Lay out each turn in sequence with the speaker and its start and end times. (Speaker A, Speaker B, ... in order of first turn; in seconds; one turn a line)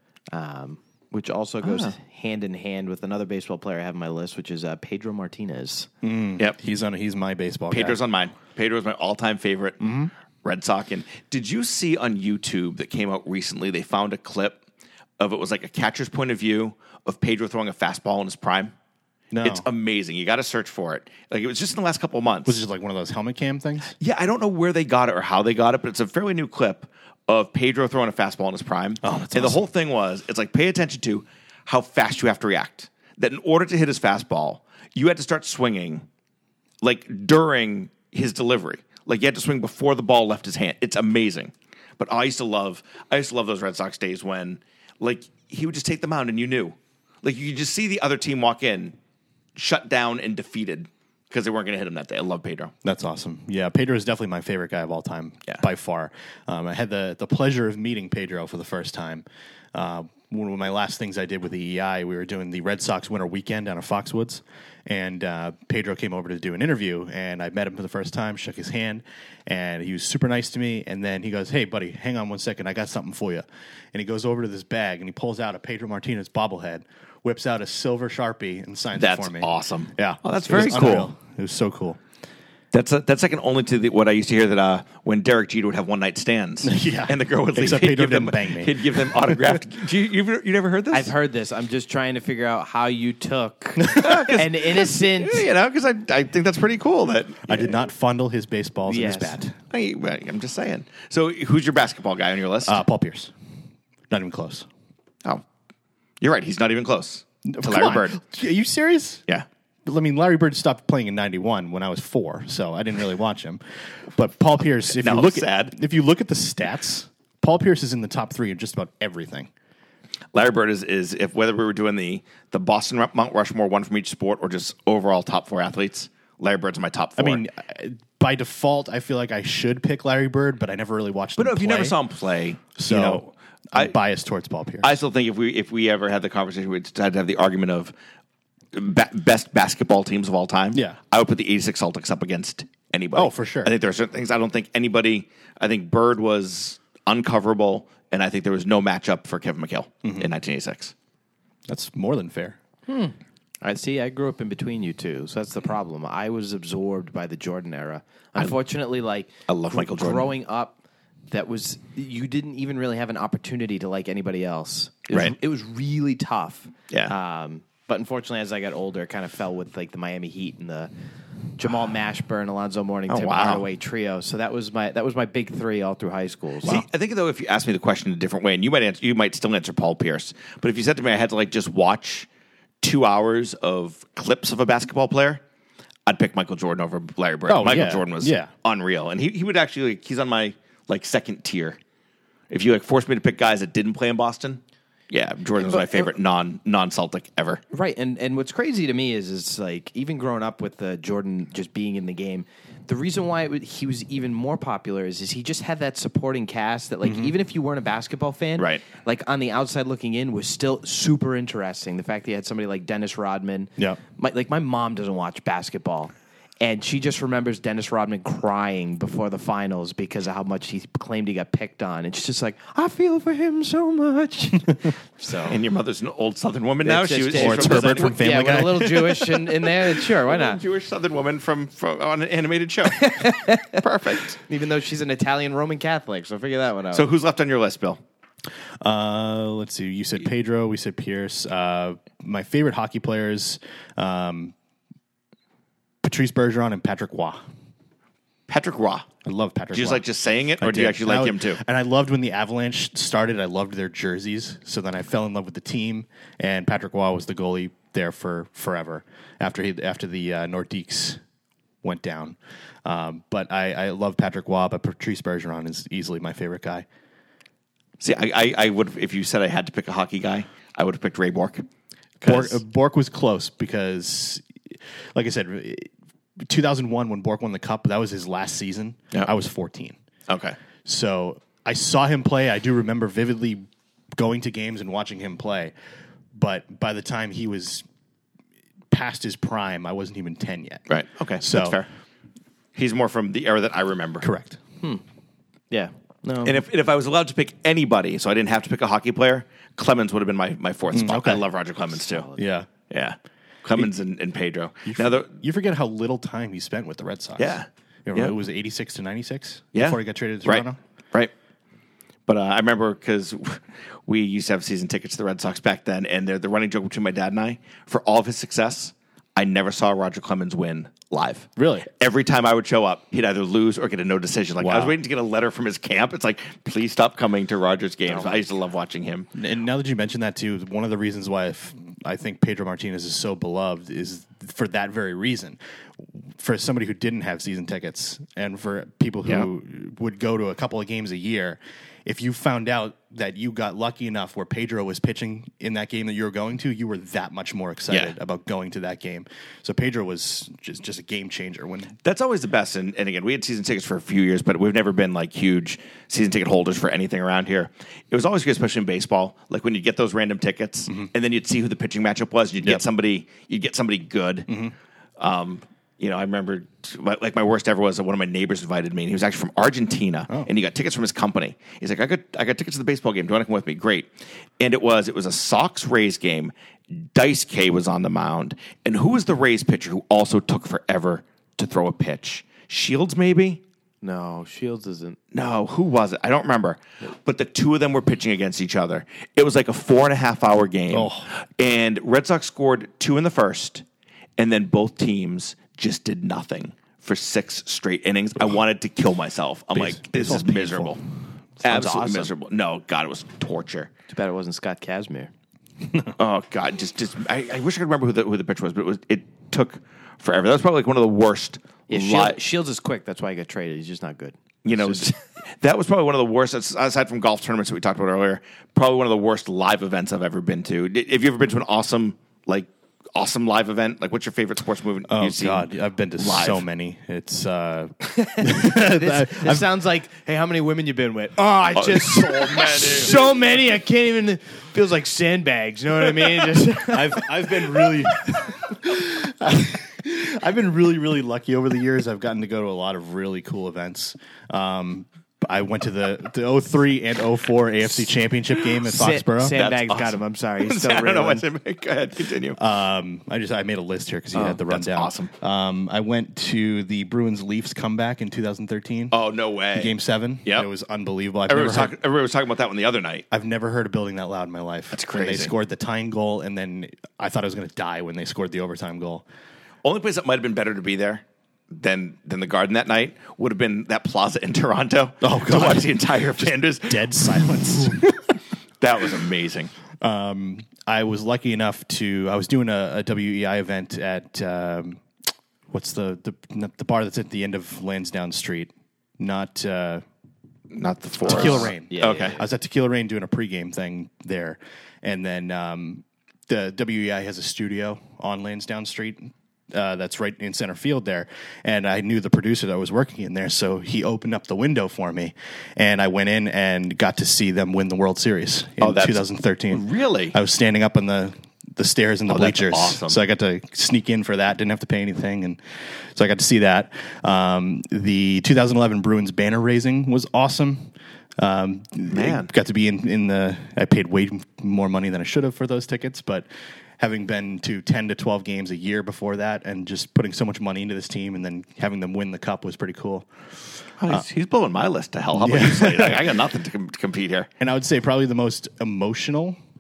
Speaker A: 0.3-5.9
Speaker B: 1.6-1.9
Speaker C: 6.0-8.0
Speaker B: 7.7-9.9
Speaker C: 9.8-10.1
Speaker B: 10.4-14.6
Speaker B: 15.2-18.7
Speaker C: 19.3-19.6
Speaker B: 19.4-22.6
Speaker C: 22.5-23.9
Speaker B: 24.0-36.1
Speaker C: 29.0-29.6
Speaker B: 36.8-49.0
Speaker B: 49.6-52.7
Speaker C: 52.8-82.0
Speaker B: 79.0-81.1
Speaker B: 82.7-91.1
Speaker C: 86.6-89.6
Speaker A: 90.9-95.5
Speaker C: 93.8-94.2
Speaker B: 94.0-97.8
Speaker C: 97.5-99.6
Speaker A: 98.9-99.4
Speaker B: 99.7-102.8
Speaker C: 102.7-103.3
Speaker C: 104.1-104.7
Speaker B: 106.2-108.2
Speaker C: 107.5-109.2
Speaker C: 109.8-119.5
Speaker B: 114.9-115.7
Speaker B: 120.3-127.5
Speaker C: 127.2-132.0
Speaker B: 131.4-133.9
Speaker C: 132.8-135.0
Speaker B: 134.8-137.9
Speaker B: 138.7-150.9
Speaker C: 143.1-143.7
Speaker C: 150.0-150.3
Speaker C: 151.7-152.6
Speaker A: 152.9-160.8
Speaker B: 159.5-160.3
Speaker A: 161.3-170.9
Speaker A: 171.6-176.8
Speaker B: 173.1-173.6
Speaker B: 176.6-182.3
Speaker B: 182.8-185.4
Speaker B: 186.1-191.8
Speaker C: 187.4-188.5
Speaker B: 192.5-197.6
Speaker A: 195.6-196.1
Speaker A: 197.7-225.6
Speaker C: 207.0-207.3
Speaker B: 208.6-208.9
Speaker B: 225.5-234.4
Speaker A: 226.8-230.6
Speaker C: 227.3-229.0
Speaker A: 232.9-237.1
Speaker B: 236.9-238.0
Speaker C: 238.8-244.5
Speaker C: 246.0-247.4
Speaker B: 248.5-249.1
Speaker C: 249.2-250.1
Speaker B: 249.7-251.6
Speaker C: 250.6-261.2
Speaker C: 261.8-266.9
Speaker B: 268.0-271.7
Speaker B: 272.2-272.6
Speaker C: 272.2-274.4
Speaker C: 275.1-280.0
Speaker B: 280.3-280.6
Speaker C: 280.9-285.7
Speaker C: 286.3-287.9
Speaker C: 288.9-290.9
Speaker B: 290.9-291.9
Speaker C: 291.4-291.8
Speaker B: 292.8-294.3
Speaker C: 294.2-294.6
Speaker A: 295.7-296.6
Speaker B: 296.4-302.3
Speaker C: 300.9-301.4
Speaker A: 302.1-302.4
Speaker C: 302.4-302.7
Speaker B: 302.9-305.4
Speaker C: 304.9-310.8
Speaker B: 307.4-308.4
Speaker B: 309.8-311.3
Speaker B: 312.3-329.3
Speaker C: 321.6-321.9
Speaker C: 324.6-325.0
Speaker C: 329.4-335.6
Speaker C: 336.2-352.0
Speaker B: 347.9-348.1
Speaker B: 352.0-364.5
Speaker C: 364.5-364.7
Speaker B: 365.2-376.5
Speaker B: 377.1-383.6
Speaker A: 384.0-385.2
Speaker B: 385.3-393.8
Speaker C: 390.9-391.3
Speaker B: 394.4-401.0
Speaker C: 399.7-401.0
Speaker A: 401.6-402.3
Speaker B: 401.6-403.9
Speaker A: 404.1-405.3
Speaker B: 406.2-412.4
Speaker A: 411.9-415.1
Speaker B: 414.6-426.6
Speaker C: 425.1-429.7
Speaker A: 428.1-437.9
Speaker B: 431.8-433.2
Speaker C: 436.9-449.6
Speaker A: 448.9-451.4
Speaker B: 449.5-452.6
Speaker C: 452.6-459.1
Speaker B: 454.4-455.3
Speaker B: 459.1-460.7
Speaker C: 459.8-462.0
Speaker B: 461.5-463.3
Speaker C: 463.3-469.3
Speaker B: 464.9-465.5
Speaker B: 469.8-478.0
Speaker C: 475.2-478.4
Speaker B: 478.8-479.7
Speaker C: 480.0-485.0
Speaker C: 485.7-490.0
Speaker B: 490.7-492.4
Speaker C: 491.2-515.6
Speaker A: 491.3-492.4
Speaker B: 508.8-510.4
Speaker B: 512.3-513.2
Speaker C: 516.1-526.5
Speaker B: 522.1-522.5
Speaker C: 527.0-533.3
Speaker B: 534.0-537.5
Speaker C: 535.3-536.4
Speaker C: 537.6-539.6